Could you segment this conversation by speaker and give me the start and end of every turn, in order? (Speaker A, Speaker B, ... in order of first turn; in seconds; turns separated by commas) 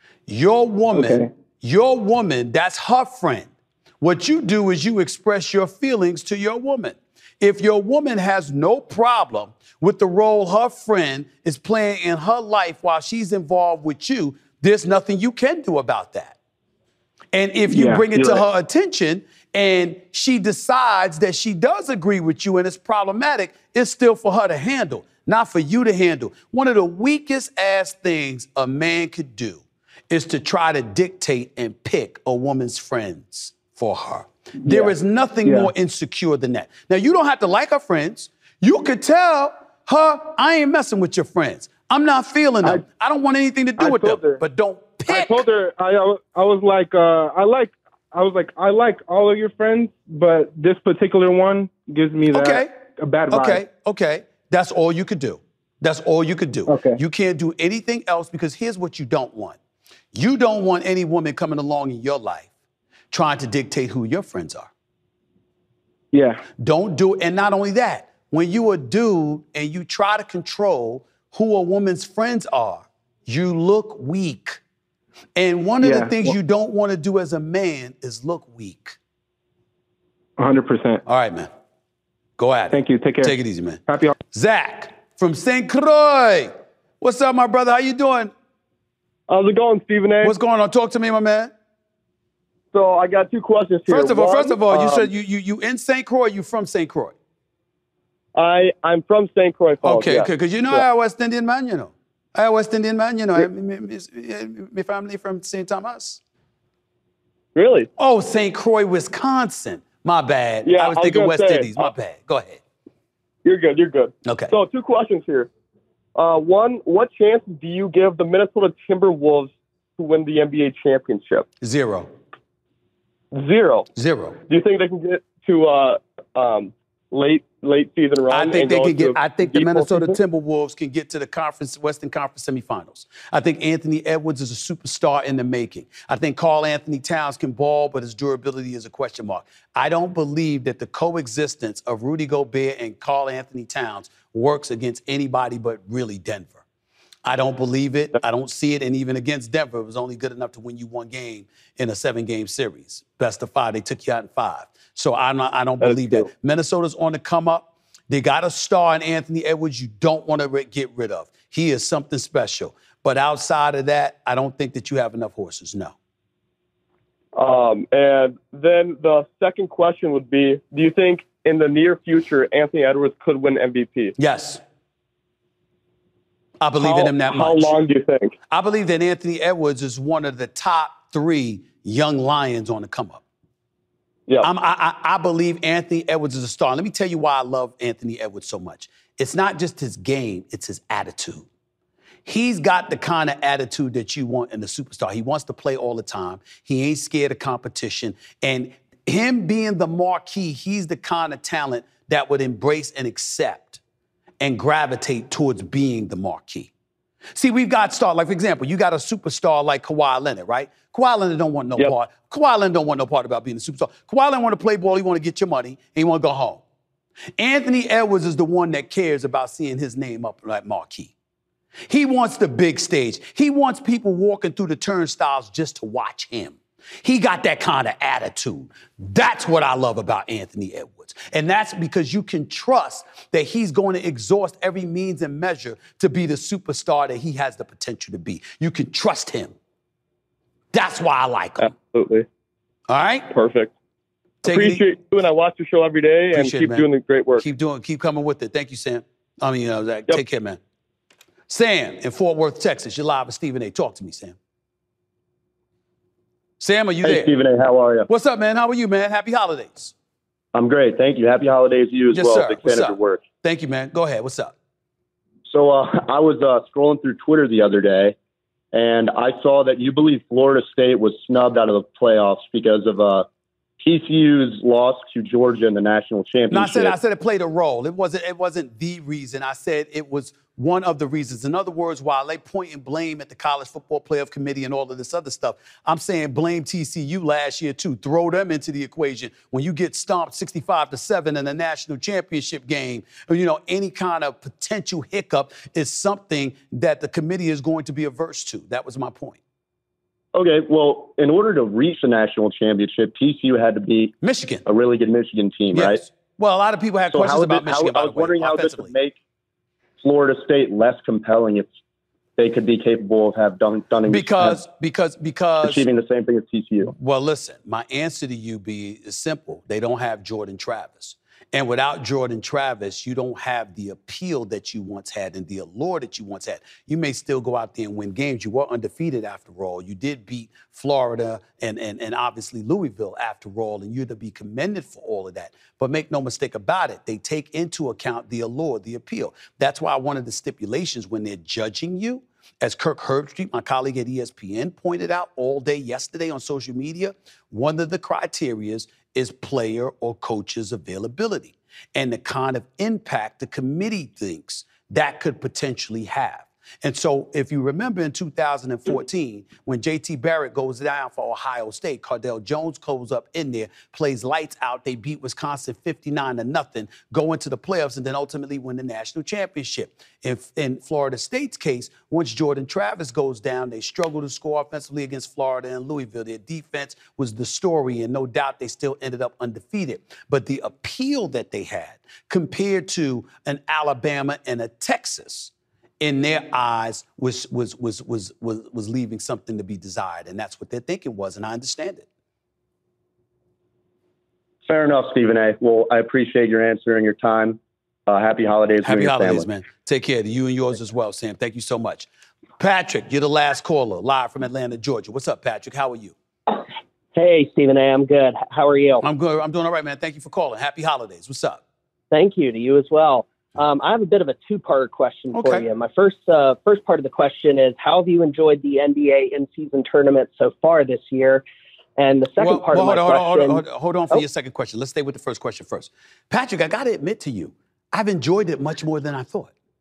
Speaker A: 0.3-16.4, Speaker B: 0.9-1.3, Speaker A: 17.3-45.5, Speaker B: 17.7-18.4, Speaker B: 34.6-34.9, Speaker B: 35.4-35.7, Speaker B: 43.8-44.3, Speaker B: 45.1-53.6, Speaker A: 52.3-52.7, Speaker A: 53.3-59.6, Speaker B: 56.7-57.0, Speaker A: 60.1-62.5, Speaker A: 63.1-64.7, Speaker B: 66.1-66.4, Speaker A: 66.6-74.6, Speaker A: 75.3-79.0, Speaker B: 75.8-76.3, Speaker B: 80.4-81.0, Speaker A: 81.0-81.5, Speaker A: 82.4-88.3, Speaker B: 82.7-83.3, Speaker B: 83.9-84.1, Speaker C: 89.3-90.3, Speaker A: 90.2-91.5, Speaker C: 92.7-95.1, Speaker A: 93.9-97.2, Speaker C: 98.3-100.8, Speaker A: 99.8-106.2, Speaker C: 107.5-107.9, Speaker A: 108.0-112.6, Speaker C: 110.6-111.9, Speaker C: 113.4-115.5, Speaker A: 114.2-114.5, Speaker C: 116.2-121.5, Speaker A: 121.6-122.1, Speaker C: 123.3-123.9, Speaker A: 123.9-124.4, Speaker C: 124.5-130.2, Speaker A: 128.3-146.6, Speaker A: 147.2-165.9, Speaker C: 155.8-156.2, Speaker C: 167.3-174.1, Speaker A: 174.2-174.6, Speaker A: 176.6-177.8, Speaker C: 176.8-178.3, Speaker A: 178.5-183.2, Speaker A: 184.4-191.5, Speaker A: 192.2-203.8, Speaker A: 204.4-206.7, Speaker A: 207.3-216.6, Speaker A: 217.4-221.1, Speaker A: 221.9-239.5, Speaker A: 240.7-241.7, Speaker C: 241.6-242.2, Speaker A: 242.9-243.3, Speaker C: 243.3-243.7, Speaker A: 244.4-244.8, Speaker C: 244.4-247.4, Speaker A: 246.3-246.9, Speaker A: 247.4-250.6, Speaker A: 251.5-254.4, Speaker A: 256.6-257.4, Speaker D: 257.0-258.1, Speaker A: 258.1-259.9, Speaker D: 260.5-263.2, Speaker A: 262.1-264.5, Speaker D: 265.4-268.1, Speaker D: 268.7-273.3, Speaker D: 273.8-276.9, Speaker A: 276.5-299.4, Speaker D: 300.3-306.0, Speaker A: 304.2-304.6, Speaker A: 305.7-308.9, Speaker D: 307.1-309.2, Speaker D: 310.0-311.7, Speaker D: 312.4-314.6, Speaker A: 314.1-315.9, Speaker D: 315.6-316.9, Speaker A: 317.0-392.1, Speaker D: 394.6-399.5, Speaker A: 398.8-402.1, Speaker A: 402.6-406.1, Speaker E: 407.1-409.0, Speaker A: 409.0-411.6, Speaker E: 412.1-421.4, Speaker A: 415.3-415.7, Speaker E: 422.0-424.2, Speaker A: 422.4-429.5